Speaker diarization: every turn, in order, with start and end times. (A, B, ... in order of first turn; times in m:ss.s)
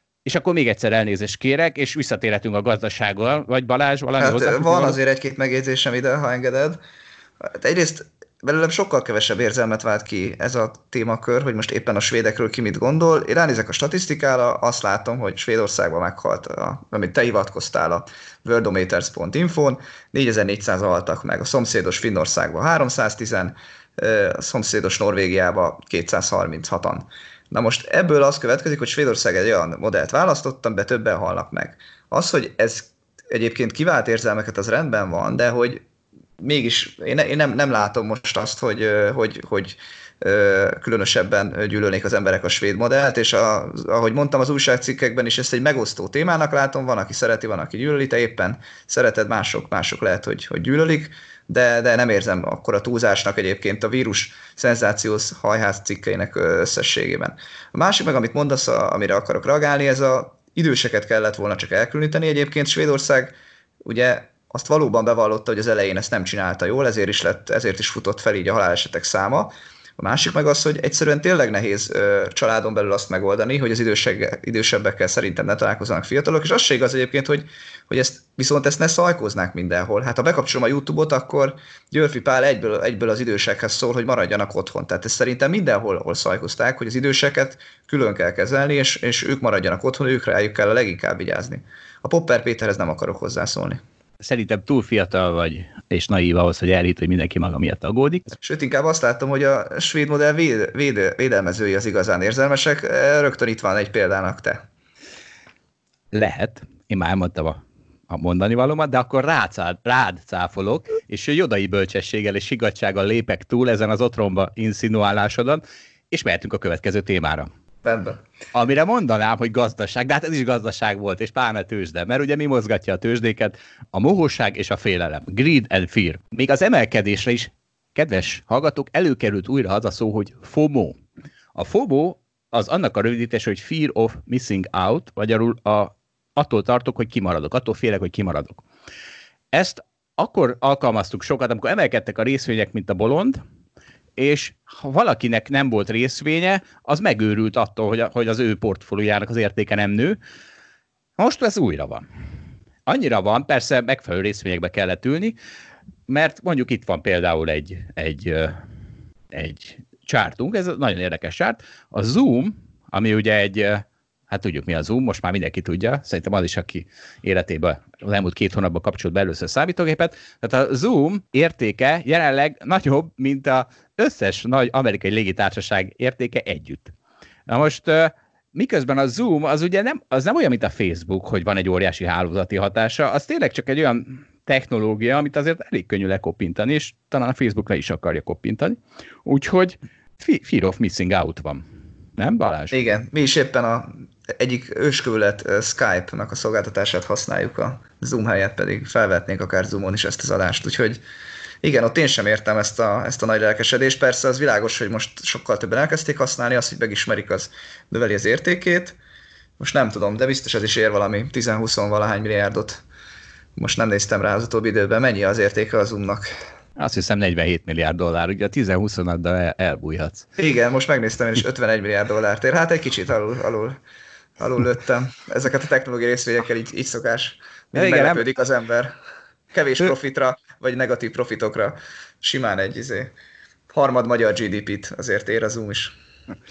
0:00.2-0:05.0 A
0:04.2-0:06.8 B
0:07.4-0:35.8 B
0:36.4-1:33.8 B
1:34.2-1:38.3 A
1:38.4-1:44.6 B
1:46.1-1:57.5 A
1:57.8-1:58.2 B
1:58.5-2:11.0 A
2:11.5-2:18.6 A
2:19.5-2:23.4 A
2:24.2-2:30.2 A
2:31.2-2:32.0 A
2:32.8-2:35.4 A
2:36.1-2:38.6 A
2:39.3-2:56.9 A
2:57.5-3:11.6 A
3:12.2-3:12.8 A
3:12.7-3:21.0 B
3:21.6-3:29.0 B
3:29.6-3:32.8 B
3:33.6-3:36.3 B
3:36.8-3:40.3 A
3:40.4-3:43.8 B
3:44.4-3:48.9 B
3:47.7-3:48.2 A
3:49.5-3:53.1 B
3:53.7-3:55.9 B